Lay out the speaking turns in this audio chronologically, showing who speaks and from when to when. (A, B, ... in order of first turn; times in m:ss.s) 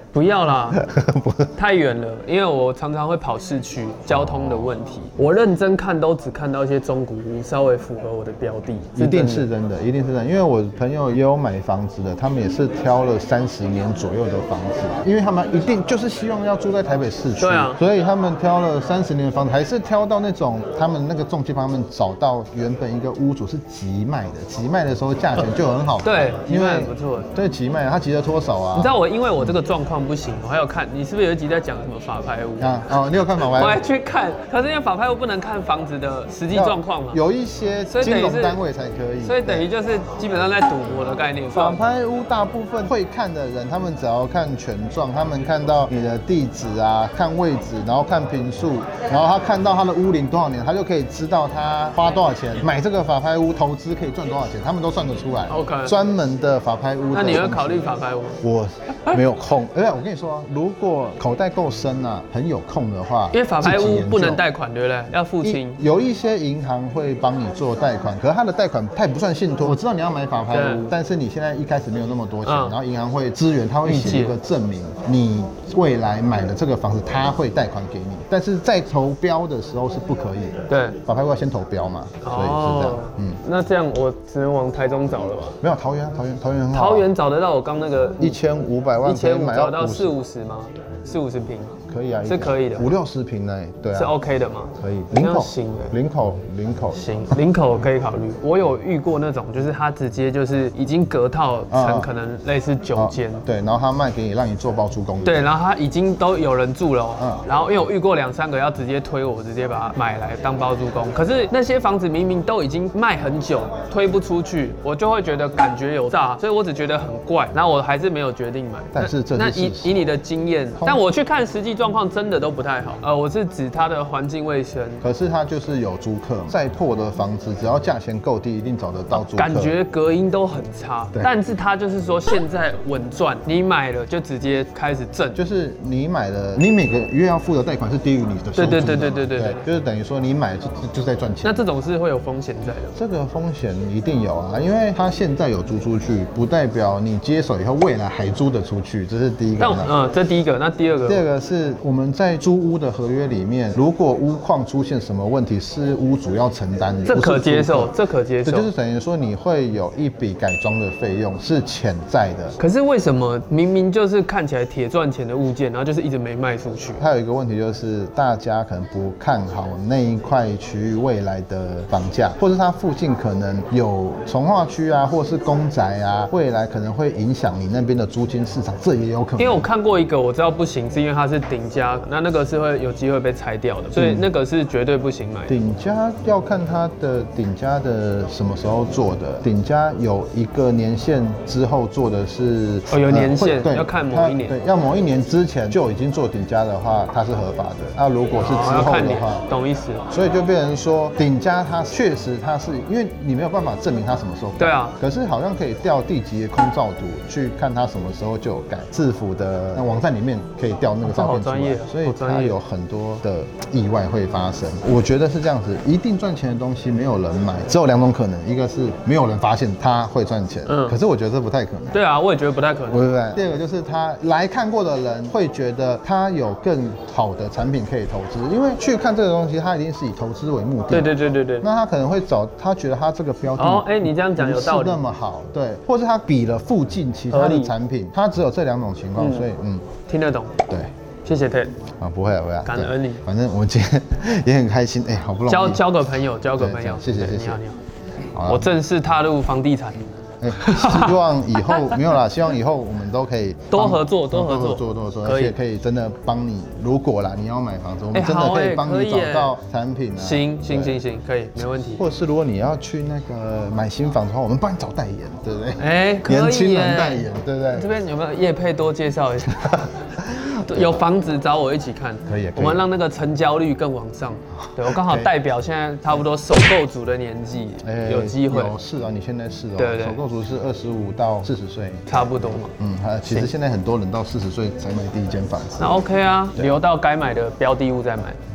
0:00.1-0:00.8 A
0:00.7-0:01.5 B
0:01.6-0:09.5 A
0:04.1-0:04.8 B
0:09.0-0:29.6 B
0:17.4-0:17.8 A
0:26.0-0:27.3 A
0:28.7-0:32.8 A
0:32.6-0:33.8 B
0:33.5-0:37.2 A
0:36.5-0:39.6 B
0:37.9-0:38.6 A
0:39.2-0:41.8 A
0:41.5-0:57.9 B
0:55.5-0:55.9 A
0:57.1-0:58.4 A
0:58.4-1:04.4 B
1:03.3-1:05.8 A
1:05.4-1:23.4 B
1:10.5-1:10.9 A
1:12.4-1:12.8 A
1:13.8-1:14.4 A
1:20.7-1:21.0 A
1:22.2-1:25.6 A
1:25.6-1:27.1 B
1:26.7-1:28.4 A
1:28.2-1:30.1 B
1:29.0-1:31.7 A
1:31.9-1:34.1 B
1:32.3-1:32.9 A
1:33.9-1:35.9 A
1:34.8-1:37.2 B
1:36.9-1:43.4 A
1:41.7-1:42.1 B
1:43.0-1:45.4 B
1:45.2-2:05.0 A
1:47.2-1:47.4 B
1:58.9-2:00.0 B
2:00.8-2:01.0 B
2:05.0-2:09.8 B
2:09.2-2:15.4 A
2:15.4-2:21.6 B
2:18.5-2:19.6 A
2:21.4-2:23.0 A
2:23.0-2:29.9 B
2:29.6-2:31.2 A
2:31.0-2:37.9 B
2:37.0-2:38.7 A
2:38.4-2:42.6 B
2:42.6-2:47.0 A
2:47.0-2:59.6 B
2:59.4-3:05.6 A
3:03.9-3:04.3 B
3:05.5-3:19.4 B
3:12.9-3:14.6 A
3:18.4-3:20.0 A
3:20.1-3:42.0 B
3:24.6-3:24.9 A
3:31.0-3:32.6 A
3:40.7-3:41.0 A
3:41.9-3:43.1 A
3:42.9-3:59.8 B
3:50.9-3:51.7 A
3:53.6-3:55.0 A
3:57.3-3:57.8 A
3:59.2-3:59.5 A
4:00.1-4:00.6 A
4:01.2-4:01.8 A
4:02.0-4:05.9 B
4:02.6-4:03.2 A
4:05.5-4:07.8 A
4:06.5-4:07.6 B
4:08.4-4:08.7 B
4:08.5-4:12.1 A
4:10.4-4:21.0 B
4:13.7-4:15.6 A
4:18.1-4:19.5 A
4:20.2-4:22.0 A
4:21.9-4:27.9 B
4:25.8-4:29.8 A
4:30.3-4:31.0 B
4:30.6-4:38.7 A
4:32.2-4:32.9 B
4:34.9-4:35.3 B
4:37.8-4:46.8 B
4:39.8-4:40.2 A
4:42.1-4:42.7 A
4:43.2-4:43.5 A
4:45.8-4:48.4 A